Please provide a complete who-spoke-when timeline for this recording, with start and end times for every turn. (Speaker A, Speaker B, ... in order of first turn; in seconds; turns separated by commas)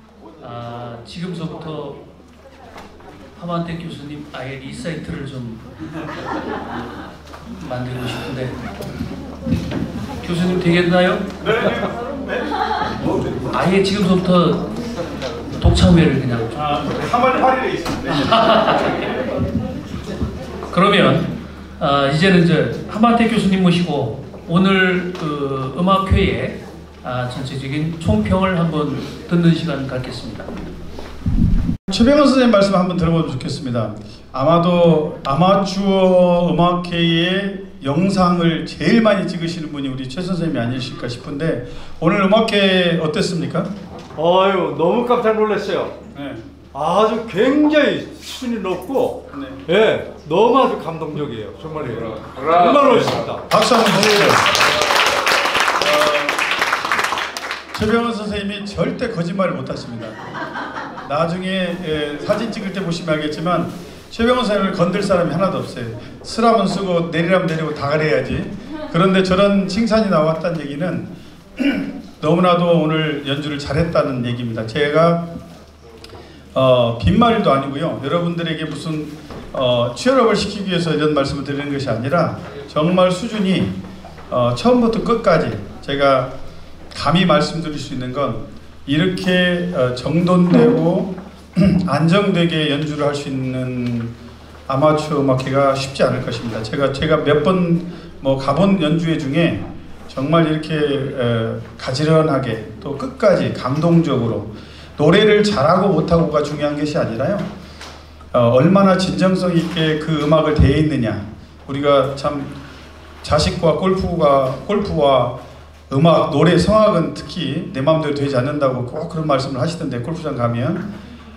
Speaker A: 0.4-2.0, Speaker A: 3.4-5.7, Speaker A: 7.5-8.6, Speaker A: 10.2-11.3, Speaker B: 11.4-12.0, Speaker A: 13.5-14.7, Speaker A: 15.6-16.6, Speaker B: 16.5-18.5, Speaker A: 18.1-19.0, Speaker A: 20.7-30.5, Speaker B: 31.9-43.7, Speaker C: 44.2-45.9, Speaker B: 46.1-46.5, Speaker C: 46.7-53.5, Speaker B: 49.3-49.6, Speaker B: 53.5-54.5, Speaker B: 55.8-56.4, Speaker B: 57.7-60.2, Speaker B: 61.0-75.2, Speaker B: 76.5-83.8, Speaker B: 84.3-86.3, Speaker B: 86.9-94.1, Speaker B: 94.7-107.5, Speaker B: 108.3-112.5, Speaker B: 113.2-115.4, Speaker B: 115.9-120.8